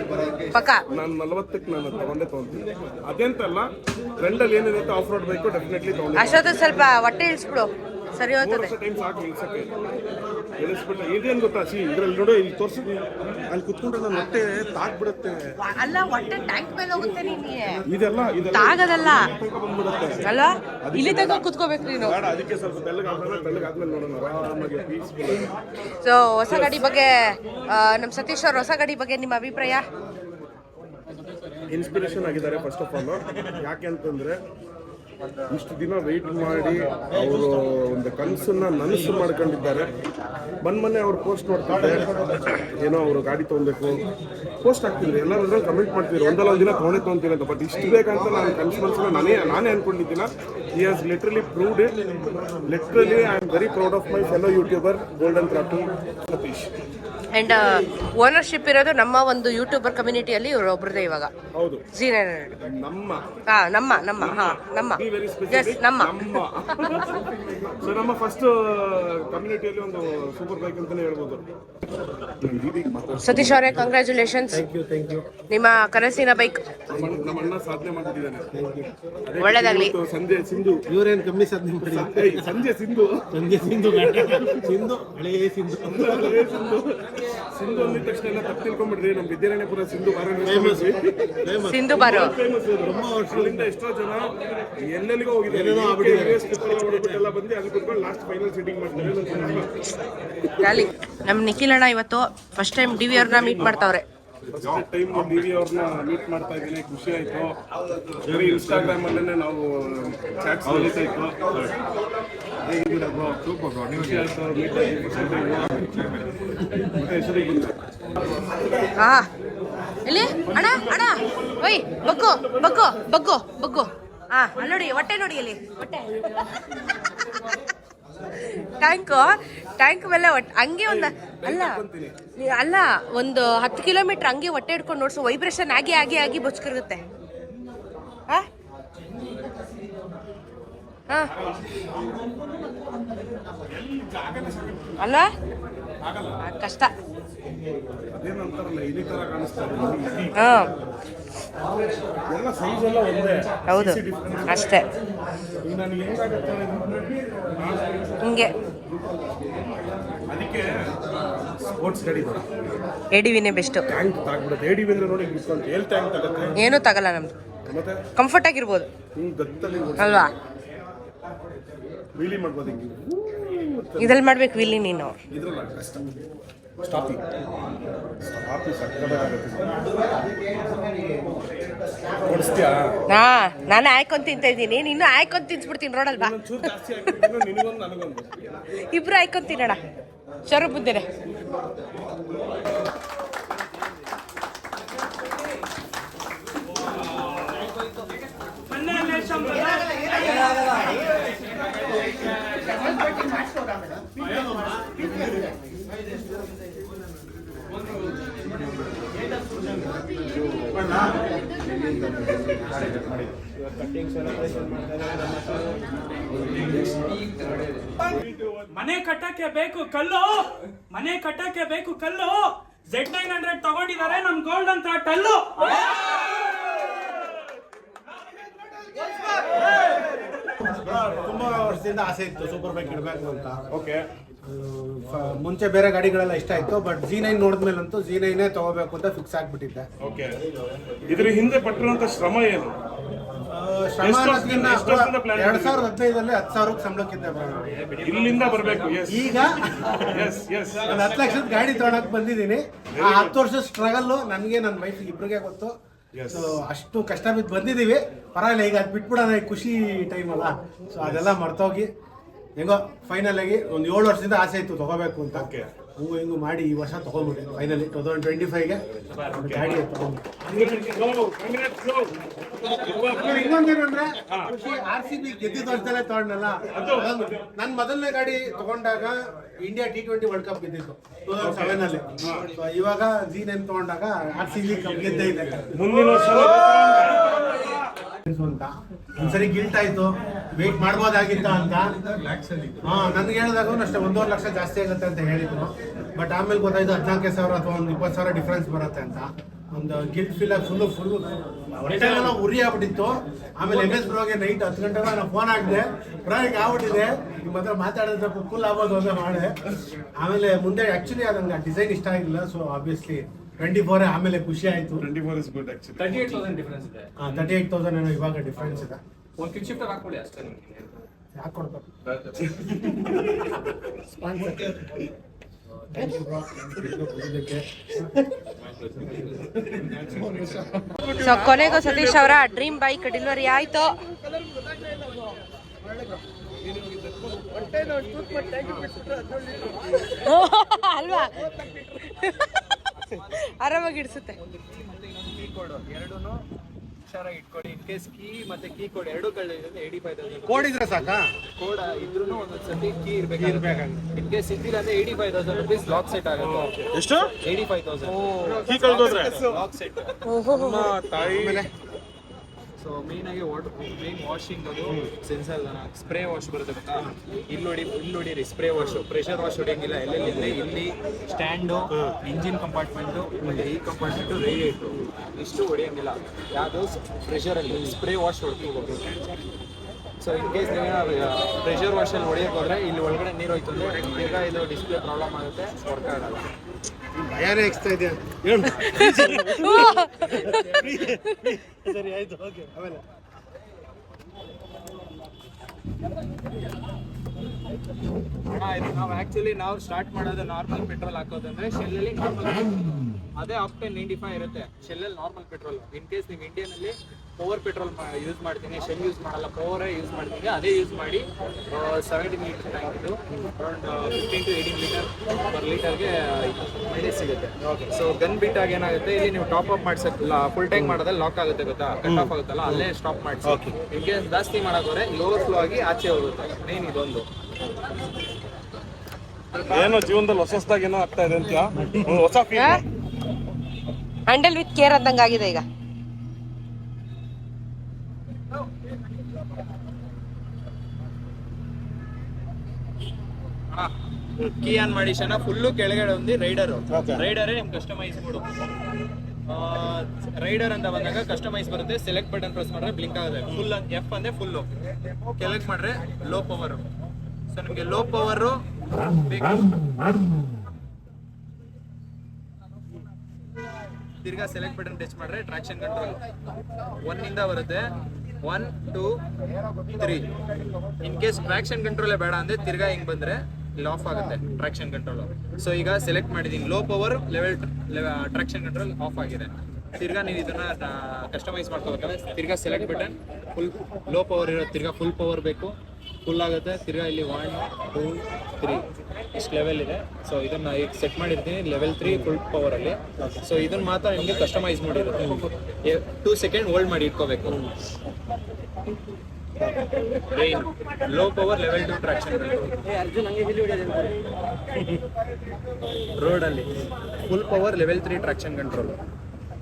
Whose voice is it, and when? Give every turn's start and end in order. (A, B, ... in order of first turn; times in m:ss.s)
0:00.4-0:00.8 A
0:00.9-0:06.6 B
0:06.1-0:08.7 A
0:08.4-0:09.8 B
0:10.6-0:15.6 B
0:15.6-0:17.8 A
0:17.8-0:20.3 B
0:18.5-0:19.3 A
0:20.2-0:22.2 A
0:20.8-0:21.5 B
0:22.0-0:25.5 B
0:26.0-0:29.9 A
0:26.5-0:26.8 B
0:31.7-0:34.4 B
0:35.5-0:39.9 B
0:40.6-0:44.0 B
0:41.7-0:42.6 C
0:44.6-0:52.0 B
0:51.9-0:53.3 C
0:52.6-0:56.7 B
0:57.3-1:01.3 A
1:01.5-1:01.8 B
1:01.9-1:02.6 A
1:02.6-1:03.3 B
1:03.5-1:06.3 A
1:04.2-1:07.2 B
1:07.8-1:11.4 B
1:12.4-1:13.8 B
1:13.2-1:14.6 A
1:14.5-1:15.3 C
1:15.5-1:16.8 A
1:16.9-1:18.5 B
1:16.9-1:17.5 C
1:18.5-1:18.9 C
1:19.2-1:20.8 B
1:19.4-1:19.9 A
1:20.9-1:22.5 C
1:21.8-1:23.4 B
1:23.3-1:26.4 C
1:24.3-1:24.6 B
1:25.8-1:27.0 B
1:27.5-1:31.0 B
1:30.4-1:32.0 C
1:31.6-1:32.3 A
1:31.9-1:39.9 B
1:32.8-1:33.7 C
1:35.5-1:37.1 C
1:40.6-1:44.0 A
1:43.1-1:43.9 B
1:44.5-1:47.6 B
1:48.2-1:51.7 B
1:52.6-1:56.2 B
1:56.8-1:57.8 B
1:59.0-1:59.3 A
2:00.0-2:07.6 A
2:00.4-2:02.8 B
2:08.3-2:11.8 A
2:10.8-2:12.2 B
2:12.4-2:17.0 A
2:21.1-2:21.3 A
2:23.7-2:25.0 B
2:25.0-2:25.3 A
2:26.0-2:26.4 B
2:26.4-2:26.9 A
2:28.2-2:30.4 B
2:30.4-2:30.7 A
2:32.3-2:34.9 B
2:33.7-2:34.9 A
2:35.6-2:38.4 B
2:38.2-2:38.5 A
2:40.3-2:40.9 B
2:41.8-2:42.4 B
2:43.1-2:43.9 A
2:43.9-2:46.7 B
2:46.6-2:47.4 A
2:47.7-2:48.0 B
2:48.2-2:48.9 A
2:49.1-2:50.3 B
2:50.0-2:50.3 A
2:52.1-2:54.2 B
2:54.0-2:55.2 A
2:55.3-2:56.0 B
2:56.8-2:57.2 B
2:58.2-2:59.8 B
2:59.8-3:01.4 C
3:02.2-3:02.9 B
3:03.1-3:07.1 A
3:06.1-3:08.4 B
3:08.9-3:09.8 A
3:10.5-3:11.1 A
3:18.7-3:20.6 D
3:24.0-3:26.8 C
3:29.4-3:35.8 C
3:36.3-3:37.4 C
3:38.1-3:38.7 B
3:38.7-3:46.1 D
3:50.6-3:53.6 C
3:53.7-3:54.1 B
3:54.4-3:59.9 C
4:00.0-4:00.4 B
4:01.1-4:02.8 B
4:03.4-4:07.7 C
4:04.0-4:05.9 B
4:07.7-4:09.0 E
4:08.0-4:09.4 B
4:09.1-4:10.2 C
4:10.0-4:11.0 B
4:10.8-4:15.7 C
4:12.9-4:13.3 B
4:16.1-4:16.6 B
4:16.3-4:21.9 C
4:21.0-4:21.3 B
4:22.6-4:30.8 C
4:25.3-4:25.7 B
4:29.4-4:29.8 B
4:30.4-4:32.1 B
4:32.7-4:33.6 B
4:33.1-4:47.2 C
4:36.7-4:37.1 B
4:41.4-4:42.5 B
4:45.0-4:47.5 B
4:48.2-4:51.9 C
4:52.1-4:52.8 B
4:52.8-5:15.1 C
5:15.0-5:16.3 B
5:16.0-5:17.6 E
5:17.2-5:19.0 C
5:19.4-5:21.0 E
5:21.3-5:21.9 C
5:22.1-5:22.5 E
5:22.8-5:23.5 C
5:24.2-5:24.8 C
5:25.9-5:28.2 C
5:28.6-5:31.8 E
5:28.9-5:30.9 C
5:31.0-5:32.2 B
5:31.2-5:34.0 A
5:36.6-5:37.2 B
5:37.6-5:39.7 E
5:37.8-5:38.7 A
5:40.0-5:42.7 A
5:42.9-5:43.4 E
5:43.4-5:44.4 A
5:44.2-5:46.4 E
5:47.0-5:56.7 E
5:50.4-5:51.3 C
5:53.4-5:54.0 C
5:56.4-5:57.0 B
5:56.9-5:57.3 C
5:57.4-6:00.2 E
5:58.0-5:59.7 B
5:58.4-5:58.7 C
6:00.2-6:00.9 A
6:00.5-6:01.6 B
6:01.2-6:01.7 C
6:02.8-6:19.0 E
6:04.9-6:05.1 C
6:11.9-6:12.2 C
6:13.4-6:13.6 C
6:17.7-6:18.0 C
6:20.2-6:26.5 E
6:27.1-6:33.0 C
6:28.6-6:29.3 E
6:29.0-6:30.7 A
6:30.4-6:31.0 E
6:38.5-6:42.7 E
6:43.4-7:07.2 E
6:57.6-6:57.9 C
7:00.7-7:01.0 C
7:02.0-7:02.8 C
7:03.4-7:03.7 C
7:09.7-7:12.8 B
7:12.5-7:12.8 A
7:14.3-7:15.6 A
7:24.6-7:28.5 E
7:26.9-7:27.2 C
7:29.5-7:34.7 E
7:35.4-7:36.8 E
7:37.5-7:39.8 E
7:44.2-7:46.2 E
7:47.0-7:47.8 E
7:48.4-7:49.2 E
7:49.8-7:50.3 E
7:50.9-8:17.6 E
8:12.0-8:12.3 C
8:13.2-8:13.4 C
8:20.3-8:24.1 E
8:26.1-8:26.7 E
8:27.2-8:29.0 E